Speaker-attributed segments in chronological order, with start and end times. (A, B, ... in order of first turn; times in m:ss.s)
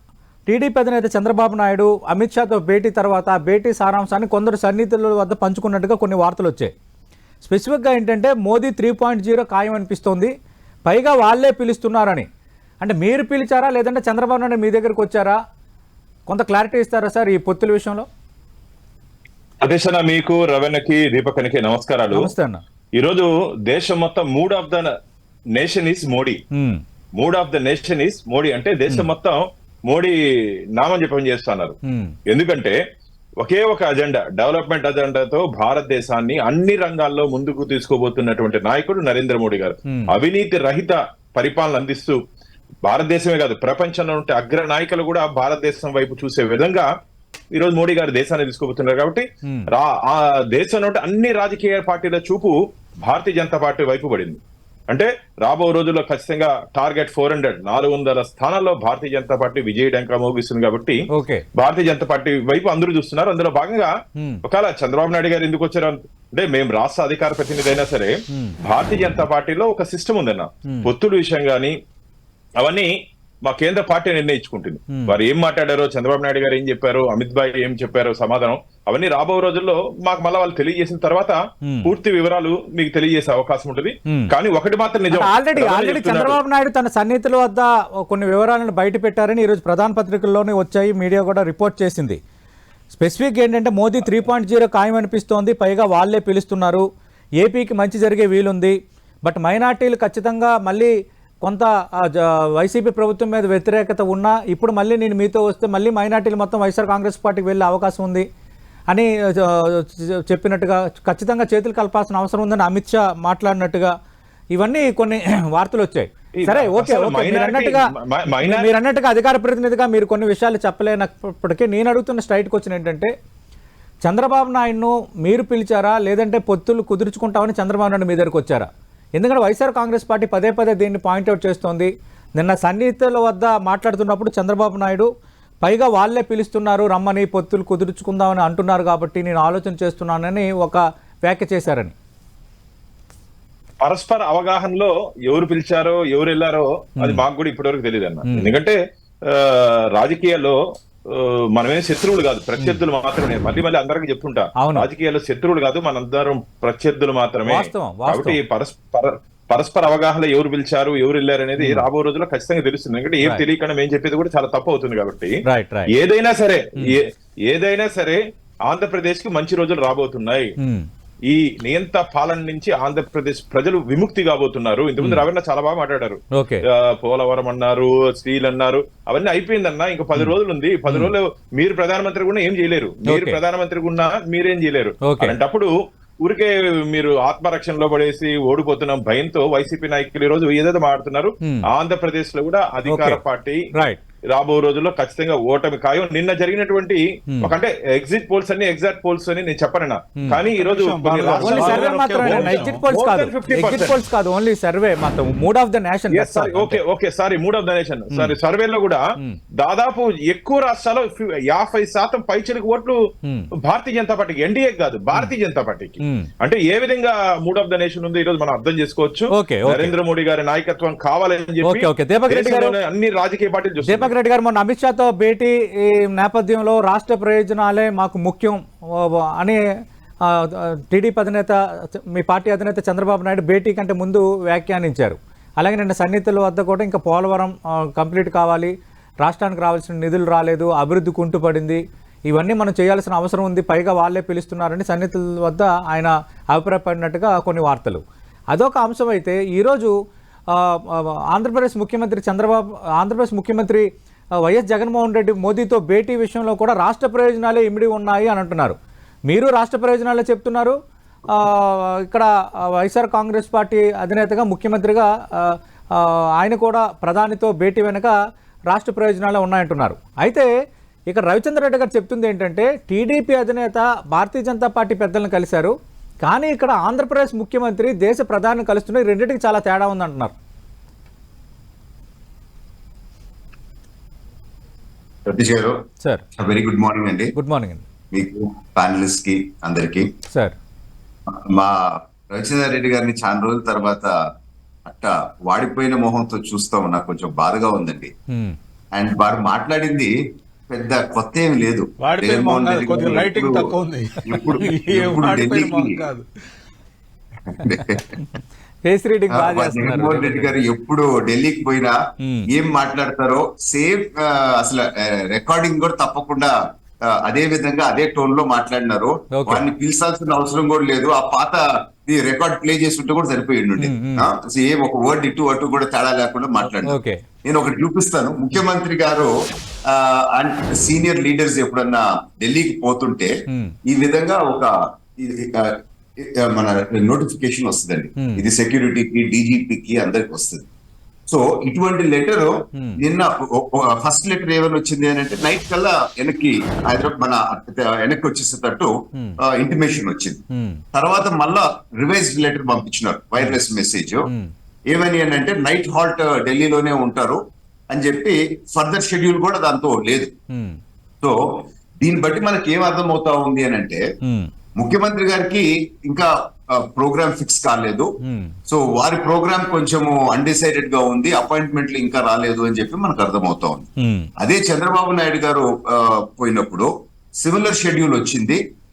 0:00.5-0:06.7 A
0:07.4-0:10.3 A
0:10.9-0:12.3 A
0:12.8-0:15.4 A
0:16.3-0:18.1 A
0:19.6-0:22.3 B
0:22.1-0:22.6 A
0:23.0-0:24.9 B
0:25.5-0:26.4 B
0:26.5-0:26.8 A
0:27.2-0:30.2 B
0:30.8-0:31.8 B
0:31.8-0:32.1 A
0:32.3-0:32.8 B
0:33.4-0:42.2 B
0:39.9-0:40.1 A
0:42.8-0:46.9 B
0:47.5-1:03.9 B
0:49.4-0:49.7 A
1:01.1-1:01.4 A
1:04.2-1:04.4 A
1:04.4-1:11.8 B
1:12.6-1:12.9 B
1:13.4-1:26.4 B
1:14.9-1:15.2 A
1:21.6-1:21.9 A
1:24.1-1:24.3 A
1:25.1-1:32.2 A
1:32.9-1:36.8 A
1:37.4-1:40.9 A
1:41.4-1:48.3 A
1:48.9-1:53.9 A
1:54.5-1:57.8 A
1:56.4-1:58.7 B
1:58.4-2:03.1 A
2:04.0-2:15.1 A
2:15.6-2:21.9 A
2:23.8-2:45.4 B
2:34.6-2:34.9 A
2:37.4-2:38.4 A
2:41.6-2:41.9 A
2:45.4-2:45.9 A
2:45.9-2:50.5 B
2:50.6-2:50.9 A
2:51.3-3:05.7 B
2:55.0-2:55.2 A
2:56.3-2:56.6 A
3:00.9-3:01.1 A
3:03.0-3:03.4 A
3:05.0-3:05.3 A
3:06.2-3:13.7 B
3:12.9-3:13.2 A
3:13.7-3:14.0 A
3:14.3-3:24.0 B
3:20.5-3:22.8 C
3:21.4-3:26.8 A
3:26.1-3:29.0 B
3:29.6-3:33.0 B
3:33.2-3:33.5 A
3:33.6-3:44.1 B
3:36.0-3:36.3 A
3:39.3-3:39.9 A
3:41.6-3:42.8 A
3:43.8-3:49.6 A
3:50.2-4:09.9 A
4:10.5-4:13.9 A
4:14.4-4:18.8 A
4:19.3-4:20.8 A
4:21.3-4:28.1 A
4:28.7-4:30.5 A
4:31.1-4:40.3 A
4:45.2-4:45.8 D
4:46.4-4:47.3 D
4:47.3-4:47.8 A
4:48.1-4:50.1 D
4:50.3-4:50.6 A
4:51.3-4:54.1 D
4:54.8-4:58.1 D
4:58.3-4:58.6 A
4:58.9-5:00.1 D
5:00.7-5:03.7 D
5:02.0-5:06.2 C
5:04.2-5:06.0 D
5:07.5-5:08.2 D
5:08.8-5:10.5 A
5:09.3-5:12.0 D
5:12.2-5:12.5 A
5:12.5-5:16.5 D
5:17.0-5:29.3 D
5:19.3-5:19.6 A
5:23.8-5:24.3 A
5:26.8-5:27.2 A
5:29.9-5:33.3 D
5:33.5-5:33.7 A
5:33.8-5:40.6 D
5:38.2-5:38.5 A
5:41.3-5:50.4 D
5:42.7-5:43.0 A
5:50.5-5:50.8 A
5:50.9-5:54.3 D
5:54.2-5:54.5 A
5:54.9-5:57.4 D
5:57.9-6:00.3 D
6:00.5-6:00.8 A
6:01.2-6:04.0 D
6:04.2-6:04.5 A
6:04.8-6:08.1 D
6:08.2-6:08.5 A
6:08.7-6:13.9 D
6:14.0-6:14.3 A
6:14.4-6:18.6 D